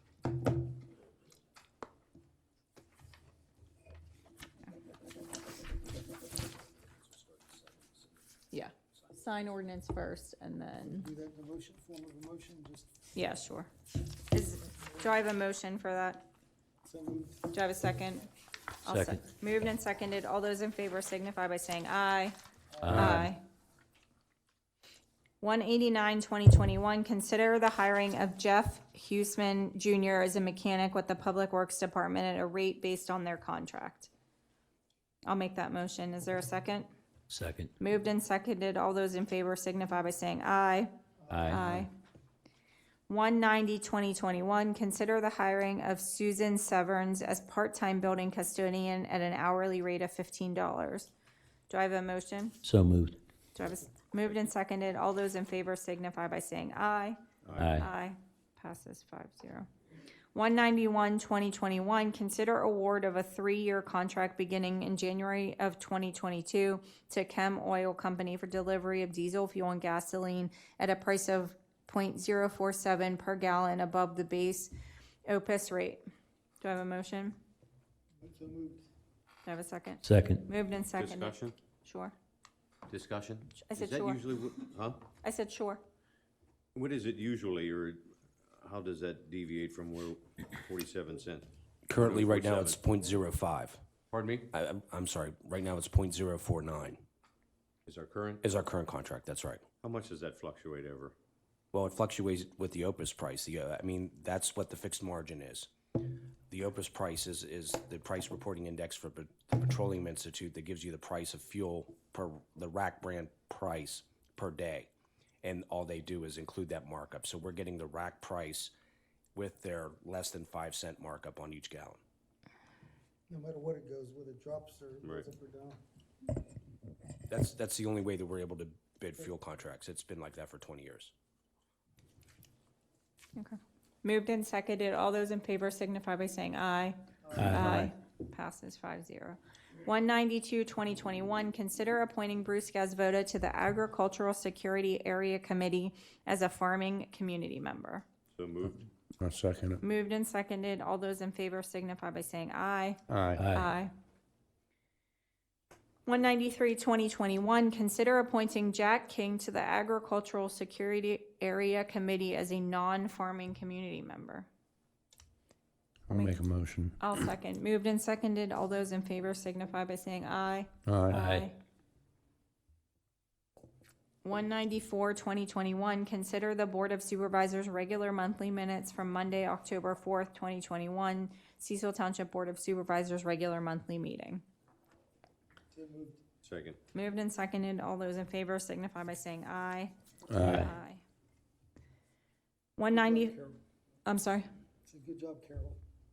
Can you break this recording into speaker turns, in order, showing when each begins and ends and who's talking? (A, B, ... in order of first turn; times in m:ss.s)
0:08.5-0:11.1 A
0:10.9-0:12.9 B
0:13.1-0:16.2 A
0:16.8-0:17.5 B
0:17.5-0:18.3 A
0:18.8-0:22.3 A
0:18.8-0:19.2 C
0:22.7-0:23.2 B
0:22.8-0:23.3 C
0:22.9-0:23.4 A
0:25.4-0:34.1 A
0:35.3-0:36.9 A
0:37.3-0:37.7 C
0:37.8-0:40.9 A
0:41.3-0:41.6 B
0:41.3-0:41.8 C
0:41.5-0:41.9 A
0:43.1-0:51.1 A
0:51.7-0:52.6 A
0:52.6-0:53.2 C
0:53.5-0:57.2 A
0:57.4-0:57.8 D
0:57.6-0:57.9 C
0:57.8-0:59.7 A
1:00.3-1:14.7 A
1:15.2-1:16.0 A
1:16.6-1:17.4 A
1:18.2-1:18.8 B
1:19.4-1:22.1 A
1:20.0-1:20.4 C
1:20.9-1:21.6 D
1:22.9-1:25.0 D
1:23.6-1:24.2 A
1:25.2-1:25.8 A
1:26.7-1:28.0 D
1:28.6-1:32.8 D
1:31.9-1:33.8 E
1:34.1-1:34.5 D
1:34.5-1:37.0 E
1:37.8-1:38.4 D
1:38.4-1:39.6 E
1:39.8-1:41.1 D
1:41.7-1:45.7 E
1:46.5-1:54.9 E
1:55.4-1:58.7 E
1:59.3-2:02.0 E
2:03.3-2:05.8 B
2:07.3-2:11.1 E
2:13.4-2:28.0 A
2:17.2-2:17.6 B
2:17.4-2:17.7 C
2:17.6-2:17.9 F
2:28.3-2:28.9 D
2:29.2-2:29.8 F
2:29.8-2:33.9 A
2:33.1-2:33.5 F
2:33.4-2:33.7 C
2:36.0-2:44.5 A
2:46.1-2:47.0 F
2:46.1-2:46.4 A
2:47.0-2:51.6 A
2:50.8-2:51.2 F
2:51.2-2:51.5 C
2:54.2-3:04.4 A
3:05.7-3:06.4 B
3:06.4-3:06.8 D
3:06.9-3:11.0 A
3:10.3-3:10.7 F
3:12.8-3:13.4 A
3:12.9-3:13.6 B
3:14.0-3:14.5 A
3:14.8-3:15.8 B